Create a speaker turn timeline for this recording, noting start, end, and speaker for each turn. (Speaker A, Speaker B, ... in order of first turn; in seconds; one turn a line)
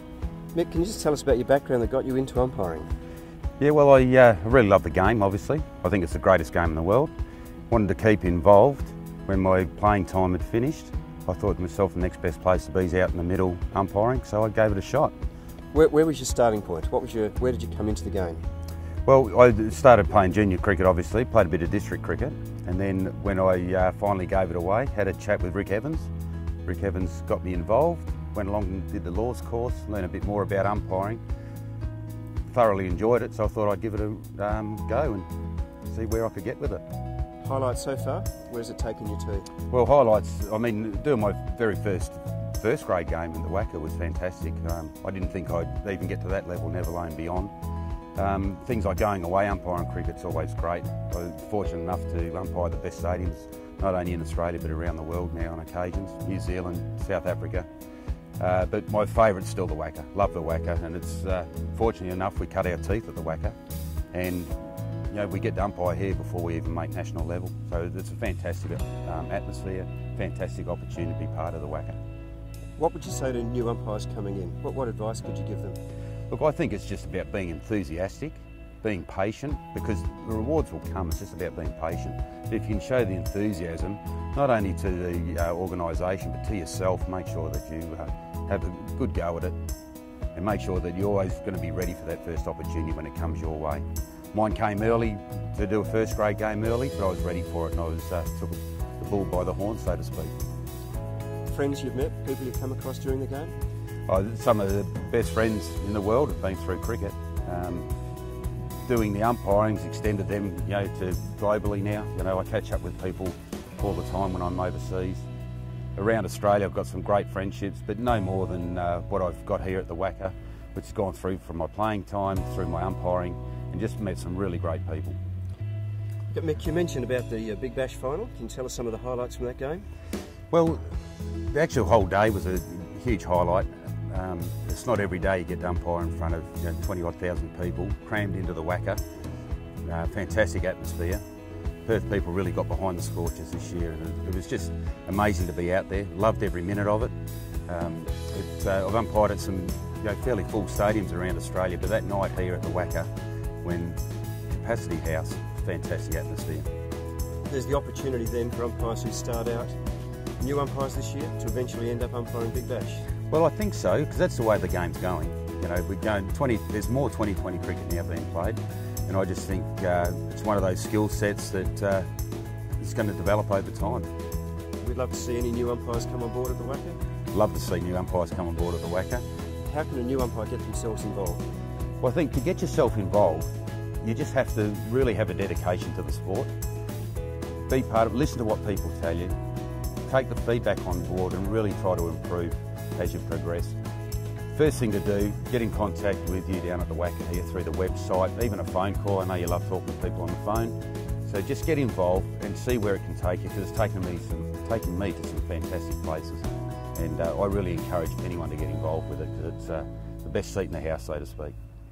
Speaker A: 0.5-2.9
Speaker B: 3.6-7.1
Speaker B: 7.7-15.1
Speaker A: 15.7-18.4
Speaker B: 19.1-26.1
Speaker B: 26.6-31.2
Speaker B: 32.5-35.3
Speaker B: 35.9-36.8
Speaker A: 37.4-39.5
Speaker B: 39.7-47.5
Speaker B: 48.1-57.7
Speaker B: 58.4-63.5
Speaker B: 64.1-64.5
Speaker B: 65.1-72.0
Speaker A: 72.8-75.8
Speaker B: 76.3-89.5
Speaker B: 90.3-100.3
Speaker A: 101.5-103.5
Speaker B: 104.1-107.8
Speaker B: 108.8-115.2
Speaker B: 116.0-125.2
Speaker A: 126.3-129.8
Speaker B: 130.5-139.0
Speaker B: 139.8-141.2
Speaker B: 141.8-147.1
Speaker B: 147.7-153.1
Speaker B: 153.6-154.0
Speaker B: 154.5-156.7
Speaker A: 157.5-159.8
Speaker A: 160.4-163.1
Speaker B: 163.3-172.1
Speaker B: 172.8-174.1
Speaker A: 174.8-177.0
Speaker B: 177.3-179.2
Speaker A: 179.7-181.4
Speaker B: 182.0-183.5
Speaker B: 184.0-186.5
Speaker B: 187.7-189.3
Speaker B: 190.1-193.8
Speaker B: 194.5-211.5